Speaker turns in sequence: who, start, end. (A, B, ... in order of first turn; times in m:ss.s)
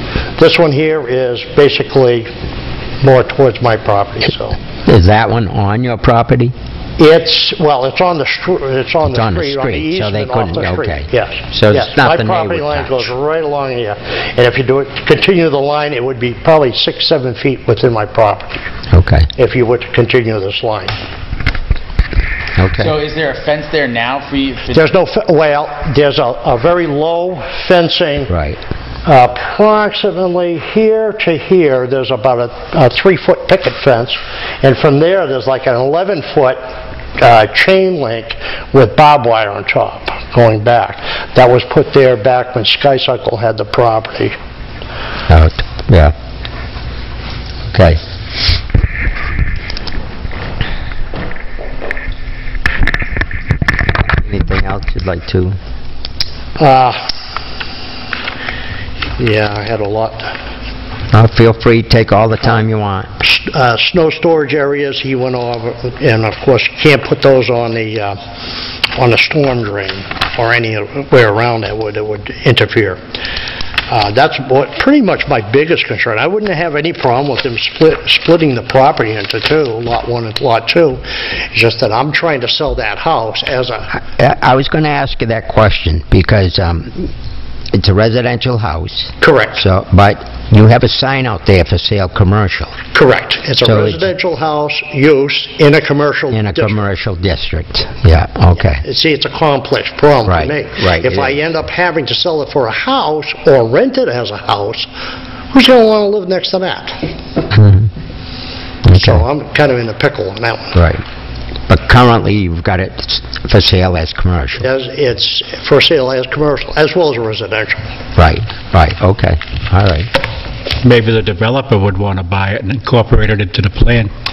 0:00.4-0:02.3 A
0:03.0-0:04.6 A
0:04.8-0:06.5 B
0:07.0-0:18.7 A
0:09.0-0:13.1 B
0:18.9-0:19.3 B
0:19.4-0:20.9 A
0:22.6-0:22.9 B
0:22.8-0:24.9 C
0:24.7-0:28.3 A
0:28.3-0:28.6 B
0:29.0-0:36.6 A
0:37.2-0:44.3 A
0:45.3-0:46.1 B
0:47.7-0:48.0 B
0:54.1-0:55.6 B
0:56.6-0:57.1 A
0:59.2-1:00.4 A
1:01.1-1:03.1 B
1:03.2-1:08.2 A
1:08.9-1:13.0 A
1:13.9-1:23.9 A
1:23.9-1:27.1 B
1:27.7-1:32.8 B
1:29.2-1:29.6 A
1:32.9-1:36.8 A
1:33.6-1:34.1 B
1:36.3-1:38.8 B
1:38.8-1:44.9 A
1:40.3-1:41.3 B
1:45.5-1:47.0 A
1:47.5-1:47.9 B
1:48.8-1:49.2 B
1:48.9-1:50.8 A
1:50.7-1:51.0 B
1:51.7-1:54.6 B
1:54.6-1:57.8 A
1:58.2-2:00.1 B
2:00.8-2:04.1 D